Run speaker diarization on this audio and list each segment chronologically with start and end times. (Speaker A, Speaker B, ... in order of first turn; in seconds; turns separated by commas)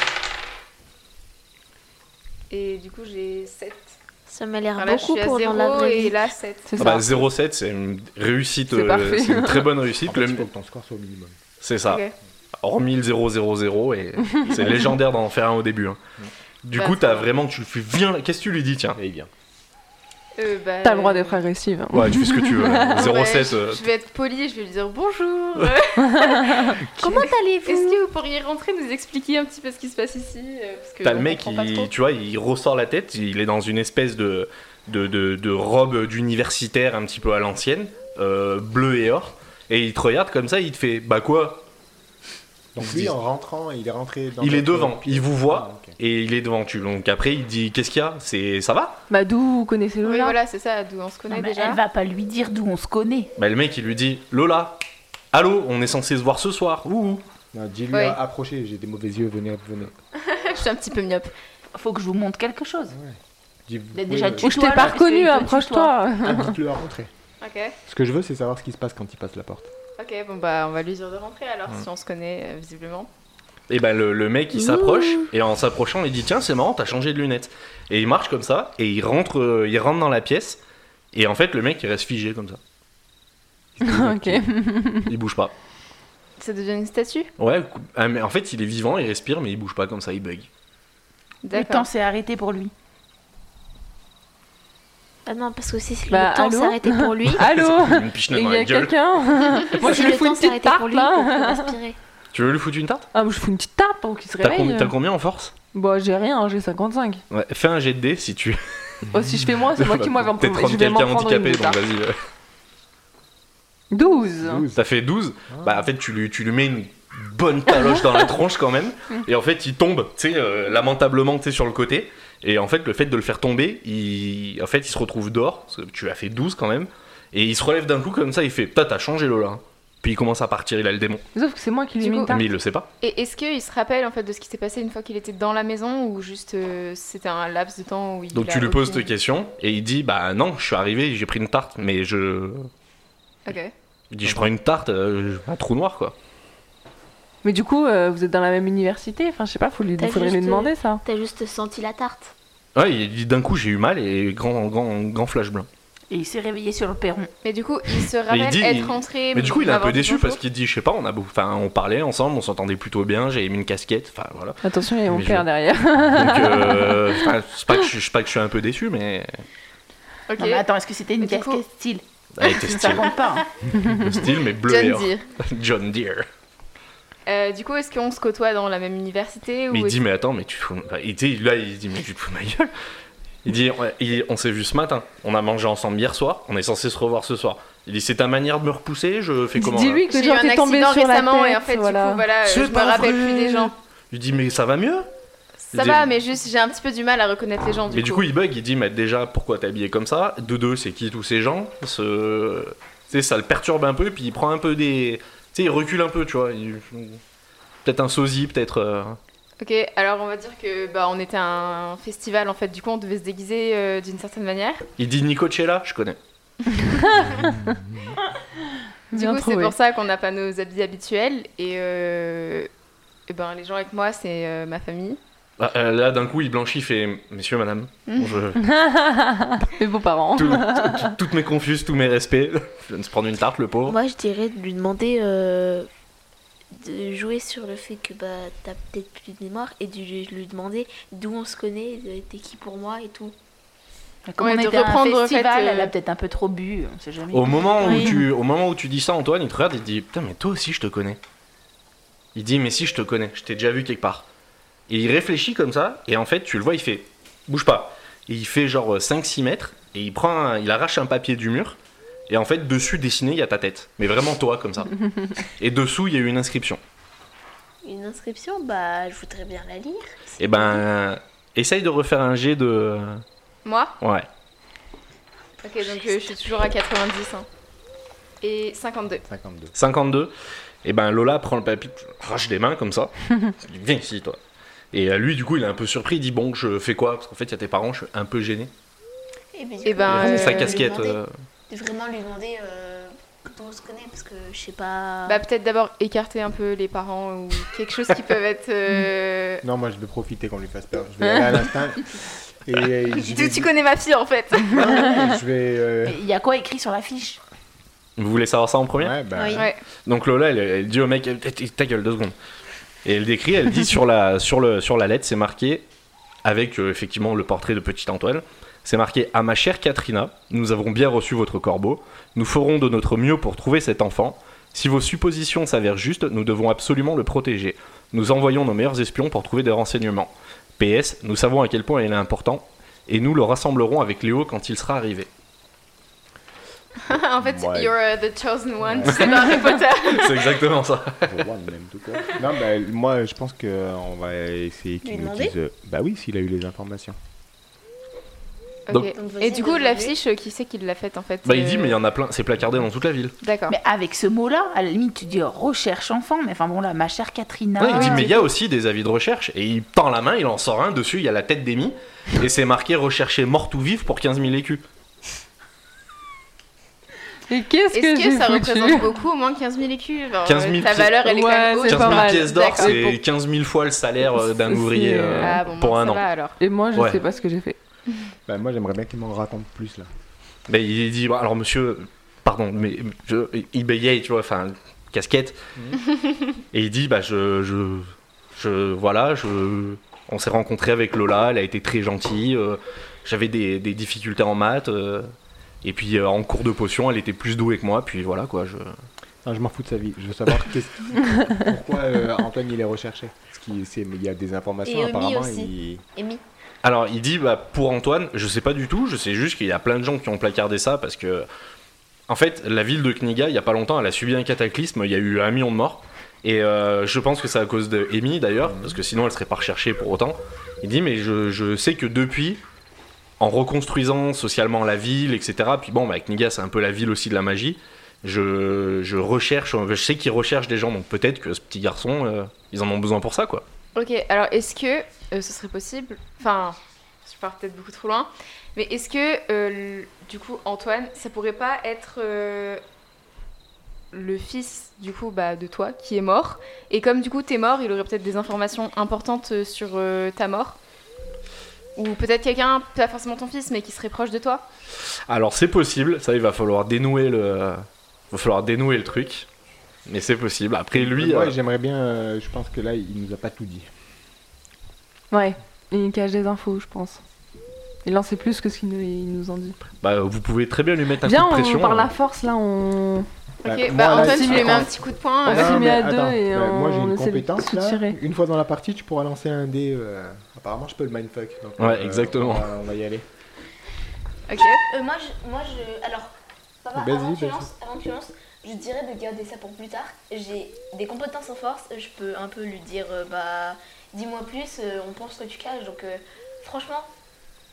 Speaker A: 2.5-4.0, Speaker B: 4.3-6.2, Speaker A: 4.8-7.0, Speaker C: 6.7-7.1, Speaker D: 6.8-10.4, Speaker C: 8.7-9.7, Speaker E: 10.1-11.4, Speaker D: 11.6-12.0, Speaker A: 11.8-12.1, Speaker D: 12.6-16.0, Speaker D: 16.6-19.0, Speaker A: 16.7-17.3, Speaker E: 18.9-19.3, Speaker A: 20.4-21.4, Speaker C: 20.8-23.1, Speaker D: 21.9-23.8, Speaker A: 22.8-26.8, Speaker C: 26.0-26.8, Speaker B: 27.0-27.7, Speaker A: 27.6-31.9, Speaker D: 31.0-41.6, Speaker E: 42.7-46.0, Speaker D: 42.8-43.1, Speaker D: 44.4-49.0, Speaker C: 49.1-50.4, Speaker A: 50.0-51.8, Speaker F: 51.3-53.3, Speaker D: 53.4-54.8, Speaker D: 55.3-57.2, Speaker E: 57.5-59.9, Speaker A: 57.9-58.2, Speaker A: 60.2-61.3, Speaker F: 61.7-63.0, Speaker E: 62.9-64.9, Speaker F: 63.9-66.0, Speaker C: 64.4-66.5, Speaker E: 66.2-67.1, Speaker A: 67.4-67.8, Speaker E: 67.8-69.7, Speaker A: 70.0-73.1, Speaker D: 73.7-80.6, Speaker D: 81.1-82.6, Speaker E: 83.8-84.0, Speaker C: 83.8-85.1, Speaker D: 83.9-84.4, Speaker D: 85.0-85.5, Speaker A: 86.4-87.3, Speaker D: 87.4-90.5, Speaker A: 91.4-91.9, Speaker F: 91.5-92.7, Speaker B: 95.2-97.5, Speaker C: 96.1-101.7, Speaker D: 97.3-99.0, Speaker B: 99.7-102.0, Speaker D: 102.3-103.1, Speaker C: 103.1-104.9, Speaker D: 104.4-105.5, Speaker C: 105.7-107.2, Speaker D: 107.3-109.1, Speaker C: 109.1-111.8, Speaker D: 109.8-112.2, Speaker C: 113.9-114.7, Speaker E: 114.4-114.8, Speaker D: 114.7-131.2, Speaker E: 115.5-115.8, Speaker C: 131.3-132.4, Speaker A: 132.0-132.3, Speaker D: 132.3-132.9, Speaker A: 133.0-139.1, Speaker D: 138.3-142.7, Speaker A: 143.4-143.7, Speaker D: 144.1-146.1, Speaker C: 147.4-151.0, Speaker B: 150.0-152.3, Speaker D: 152.7-155.7, Speaker F: 156.1-157.3, Speaker A: 157.4-160.4, Speaker D: 158.3-165.4, Speaker C: 164.6-167.2, Speaker D: 166.0-169.4, Speaker A: 170.3-170.6, Speaker F: 170.4-173.4, Speaker A: 171.2-171.6, Speaker D: 172.3-173.1, Speaker A: 172.4-173.1, Speaker D: 173.7-176.2, Speaker A: 174.6-175.2, Speaker A: 177.2-180.0, Speaker D: 179.7-182.7, Speaker D: 183.4-190.0, Speaker C: 189.6-192.2, Speaker A: 190.1-193.7, Speaker D: 192.4-195.1, Speaker A: 195.6-198.3, Speaker D: 195.7-196.1, Speaker D: 197.9-207.2, Speaker D: 207.8-209.2, Speaker A: 209.6-214.8, Speaker D: 215.0-216.2, Speaker C: 216.8-217.7, Speaker C: 219.1-219.7, Speaker A: 219.1-222.7, Speaker A: 223.3-225.2, Speaker D: 225.6-228.6, Speaker A: 228.1-228.4, Speaker C: 228.6-231.1, Speaker D: 230.3-234.0, Speaker B: 233.8-235.9, Speaker B: 236.7-243.3, Speaker F: 244.2-248.1, Speaker A: 244.4-245.9, Speaker D: 247.3-251.2, Speaker B: 247.8-248.2, Speaker C: 247.9-248.2, Speaker D: 252.3-254.2, Speaker D: 254.9-261.8, Speaker D: 262.3-266.8, Speaker B: 267.8-270.8, Speaker D: 270.4-273.2, Speaker A: 273.6-273.9, Speaker D: 274.0-274.3, Speaker A: 275.6-277.4, Speaker B: 275.8-276.6, Speaker A: 278.4-279.2, Speaker E: 279.3-279.7, Speaker D: 279.7-280.3, Speaker D: 280.8-284.4, Speaker D: 284.9-288.7, Speaker B: 289.5-295.4, Speaker A: 289.8-290.9, Speaker D: 290.1-291.3, Speaker A: 295.3-299.6, Speaker E: 299.6-303.7, Speaker A: 303.1-305.2, Speaker E: 304.7-306.2, Speaker F: 306.0-307.4, Speaker D: 308.2-309.2, Speaker E: 309.0-309.7, Speaker B: 309.4-309.7, Speaker A: 309.5-309.8, Speaker D: 310.1-312.3, Speaker D: 313.0-315.8, Speaker D: 316.4-335.3, Speaker A: 337.0-340.6, Speaker E: 337.4-337.9, Speaker E: 338.8-339.3, Speaker D: 339.1-341.3, Speaker E: 341.2-347.2, Speaker B: 345.0-345.5, Speaker A: 348.9-352.0, Speaker B: 349.1-350.2, Speaker D: 351.4-353.3, Speaker A: 353.4-353.7, Speaker F: 353.7-358.3, Speaker D: 357.8-364.8, Speaker A: 357.9-358.5, Speaker C: 367.5-369.1, Speaker A: 367.9-373.0, Speaker D: 370.4-371.3, Speaker C: 371.2-373.2, Speaker D: 371.8-376.2, Speaker C: 374.4-375.6, Speaker A: 375.4-376.6, Speaker C: 376.6-377.8, Speaker D: 376.9-377.2, Speaker E: 378.5-380.1, Speaker D: 380.7-385.6, Speaker D: 386.7-395.3, Speaker D: 395.8-398.9, Speaker E: 399.4-406.0, Speaker B: 404.8-406.4, Speaker D: 406.8-411.5, Speaker D: 412.3-422.6, Speaker E: 418.7-419.0, Speaker D: 423.4-433.6, Speaker A: 433.9-442.8, Speaker A: 444.1-450.8, Speaker A: 451.9-454.6, Speaker D: 455.3-459.5, Speaker D: 460.1-461.5, Speaker E: 460.9-463.9, Speaker C: 465.3-467.2, Speaker C: 468.0-469.8, Speaker D: 470.0-472.1, Speaker C: 471.2-473.3, Speaker A: 473.6-475.8, Speaker E: 473.6-483.2, Speaker C: 474.1-474.9, Speaker C: 475.4-478.2, Speaker D: 481.8-482.7, Speaker A: 484.5-484.8, Speaker B: 484.9-497.1, Speaker E: 486.9-487.7